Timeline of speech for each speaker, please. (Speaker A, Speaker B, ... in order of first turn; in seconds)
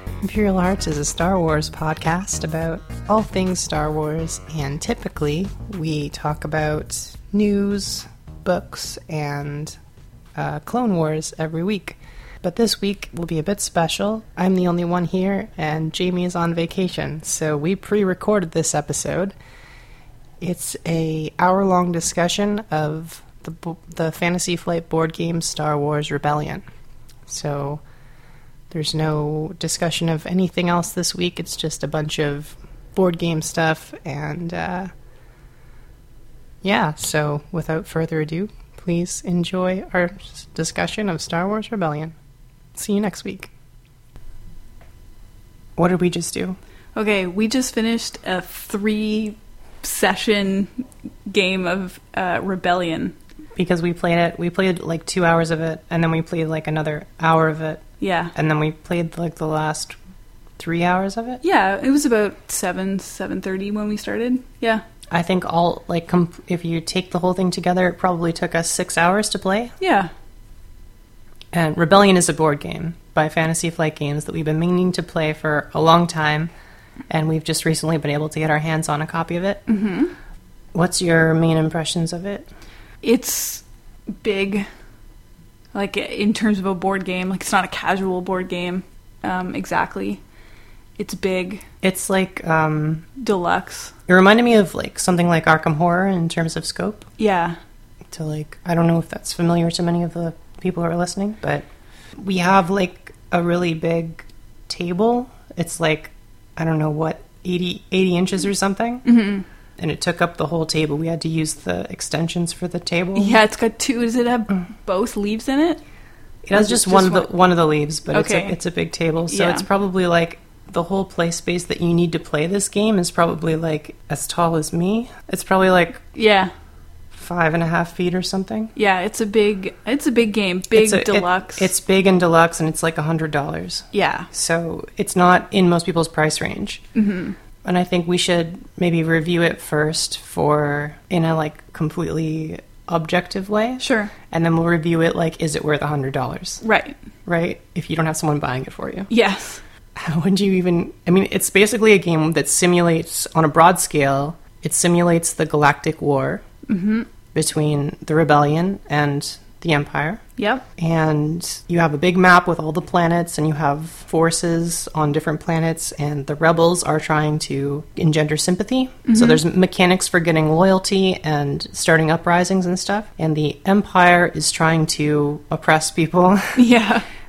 Speaker A: 0.2-9.7, 10.3-19.3, 20.4-26.6, 27.2-27.8, 28.7-34.9, 36.6-42.1, 42.7-43.5, 45.8-46.6, 53.5-57.8, 58.3-60.0, 60.6-61.4, 65.1-69.7, 71.5-76.5, 77.1-79.6, 80.7-82.5, 91.8-93.1, 94.1-97.1, 98.1-101.7, 102.2-109.0, 109.8-113.4, 116.4-126.0, 127.1-128.7, 130.7-136.8, 137.6-146.6, 147.2-149.1, 149.9-156.4, 157.3-160.2, 160.8-176.6
Speaker B: 47.0-50.7, 51.3-53.1, 58.0-58.3, 61.4-64.8, 69.8-70.1, 79.7-80.1, 83.0-83.6, 84.2-84.7, 85.7-90.2, 91.0-91.6, 93.2-93.9, 97.2-97.5, 109.0-109.5, 113.1-115.8, 116.5-117.3, 118.1-118.5, 119.3-119.6, 126.1-126.5, 128.7-131.7, 133.9-134.3, 136.9-137.4, 143.8-144.1, 146.6-147.0, 149.1-149.6, 156.7-157.1, 160.4-160.6, 169.1-169.4, 176.5-177.1